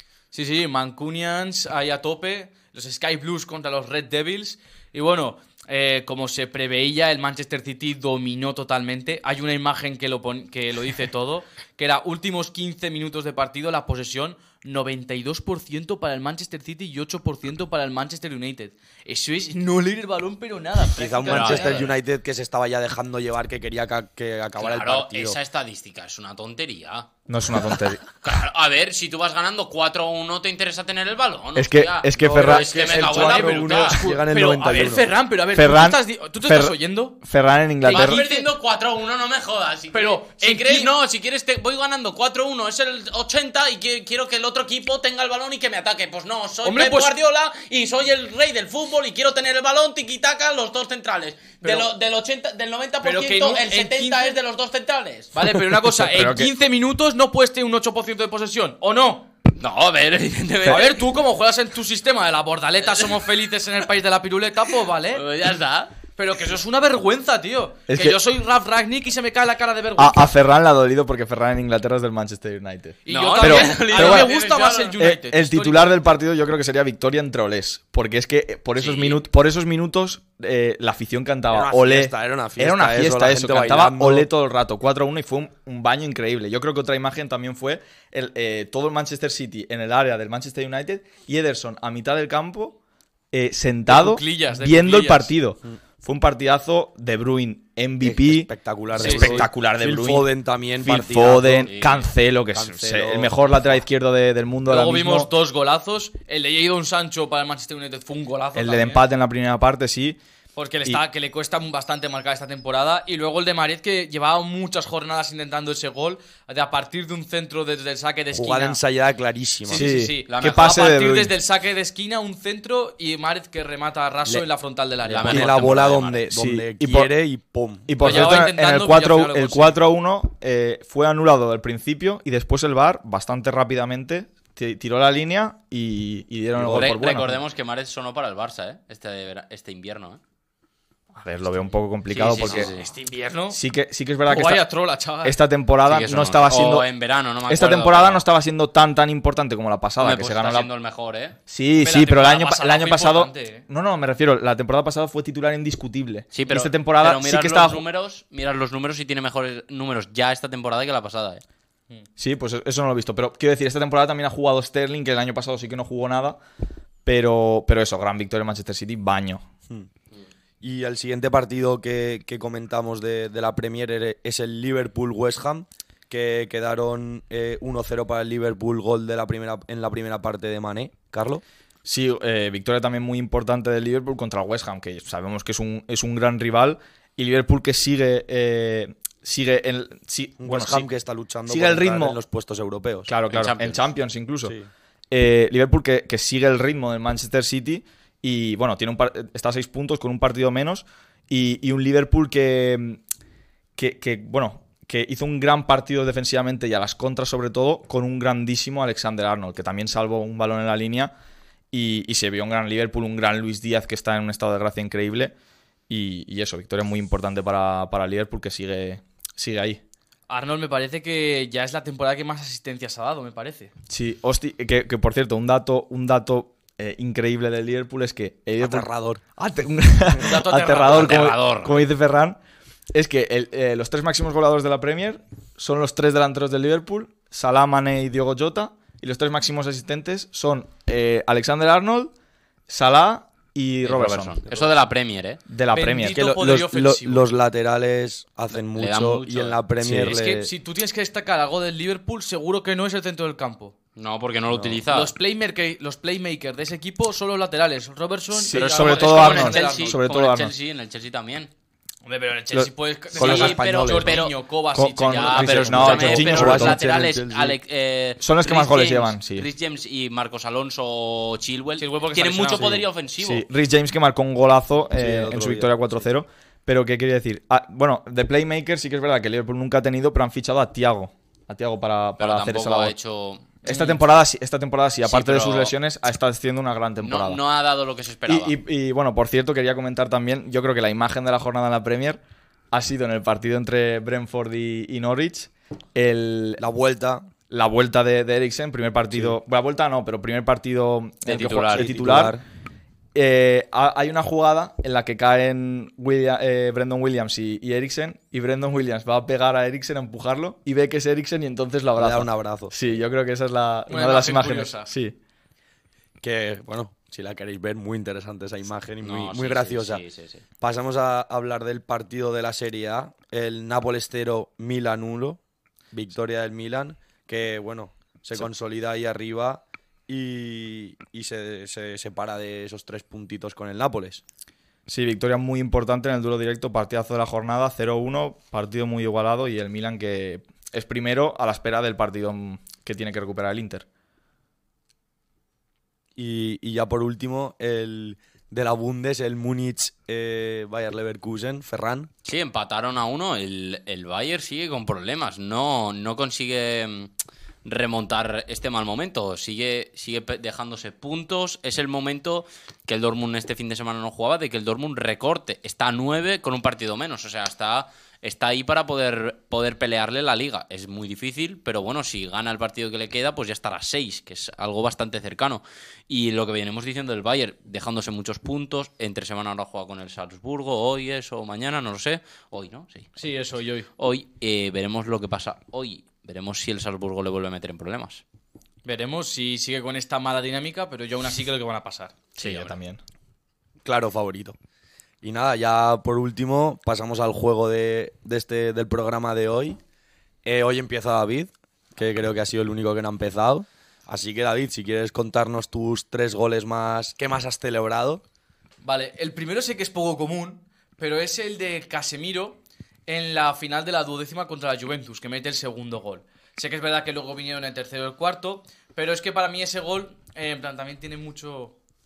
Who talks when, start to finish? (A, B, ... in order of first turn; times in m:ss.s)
0:00.3-0:22.0 A
0:20.9-0:25.4 B
0:21.3-0:21.9 C
0:24.6-0:27.1 C
0:27.3-0:28.0 D
0:27.6-0:34.0 C
0:31.5-0:32.7 D
0:32.2-0:35.1 B
0:32.7-0:37.2 A
0:35.5-0:38.2 D
0:37.8-0:38.5 A
0:37.9-0:55.4 C
0:39.9-0:40.9 A
0:46.6-0:47.1 A
0:51.6-0:51.9 A
0:53.0-0:54.4 A
0:55.3-0:59.3 A
0:56.0-0:56.5 D
0:59.6-1:01.1 C
1:00.6-1:05.2 A
1:02.8-1:03.3 C
1:05.1-1:05.9 C
1:06.2-1:10.3 A
1:07.9-1:08.2 D
1:10.0-1:14.3 D
1:13.0-1:16.0 A
1:13.1-1:15.0 C
1:15.0-1:32.8 D
1:18.8-1:19.2 C
1:21.5-1:24.3 B
1:33.3-1:45.3 D
1:33.9-1:35.3 A
1:38.0-1:41.7 B
1:39.0-1:39.4 A
1:41.7-1:42.1 C
1:42.5-1:43.8 B
1:44.7-1:49.0 A
1:48.5-1:50.2 D
1:50.6-1:58.8 A
1:58.3-1:59.9 B
1:59.7-2:05.5 A
1:59.7-2:01.4 D
2:00.3-2:00.9 C
2:05.0-2:06.2 C
2:05.2-2:07.9 B
2:06.3-2:07.1 D
2:07.9-2:17.4 D
2:08.0-2:09.7 A
2:16.6-2:16.9 B
2:16.7-2:20.2 C
2:21.1-2:22.7 D
2:22.1-2:22.9 C
2:22.3-2:23.6 A
2:23.5-2:24.6 D
2:24.2-2:25.4 A
2:25.2-2:26.9 D
2:25.8-2:28.2 C
2:27.5-2:30.7 D
2:30.0-2:31.4 C
2:31.5-2:37.8 D
2:31.8-2:33.6 A
2:36.3-2:41.4 C
2:42.2-2:46.4 D
2:47.0-2:49.4 D
2:50.6-3:01.4 B
3:01.8-3:10.9 D
3:10.4-3:13.1 B
3:11.5-3:12.2 D
3:13.1-3:14.5 D
3:13.3-3:13.8 C
3:14.4-3:14.7 B
3:15.1-3:23.0 D
3:23.8-3:31.1 D
3:31.7-3:35.3 D
3:35.9-3:39.8 D
3:40.3-3:43.7 A
3:43.9-3:52.4 D
3:48.6-3:49.2 B
3:50.2-3:51.3 A
3:50.8-3:51.8 C
3:52.9-4:02.1 D
4:02.7-4:04.4 D
4:03.8-4:05.4 C
4:05.5-4:06.2 D
4:05.7-4:07.3 A
4:06.1-4:10.5 B
4:08.7-4:09.6 C
4:09.8-4:10.2 D
4:10.0-4:13.7 A
4:14.0-4:15.1 C
4:14.5-4:14.8 B
4:14.9-4:20.0 A
4:18.3-4:20.5 D
4:18.5-4:21.5 C
4:22.0-4:26.5 A
4:23.1-4:24.2 B
4:23.1-4:24.4 C
4:24.7-4:26.8 D
4:25.0-4:33.4 C
4:25.5-4:27.6 B
4:28.2-4:29.5 D
4:31.8-4:32.8 A
4:32.6-4:42.9 D
4:35.0-4:35.8 B
4:42.2-4:43.5 C
4:43.6-4:47.4 D
4:43.6-4:44.0 A
4:45.0-4:45.7 C
4:47.0-4:48.5 C
4:48.3-4:52.2 D
4:52.7-4:56.6 D
4:56.6-4:57.3 B
4:57.5-5:02.3 D
5:01.2-5:01.9 C
5:01.7-5:02.4 B
5:03.1-5:15.2 D
5:12.0-5:13.0 B
5:13.9-5:14.9 A
5:16.2-5:20.0 B
5:19.0-5:20.4 C
5:20.6-5:25.4 B
5:25.9-5:34.2 B
5:34.9-5:43.8 D
5:46.2-5:52.1 B
5:52.2-5:57.1 C
5:57.6-6:23.2 C
6:23.2-6:23.9 A
6:24.0-6:28.2 C
6:28.8-6:32.3 A
6:32.4-6:32.7 C
6:32.4-6:33.0 D
6:33.8-6:34.6 B
6:35.2-6:39.8 B
6:40.4-6:48.2 B
6:48.8-7:01.8 A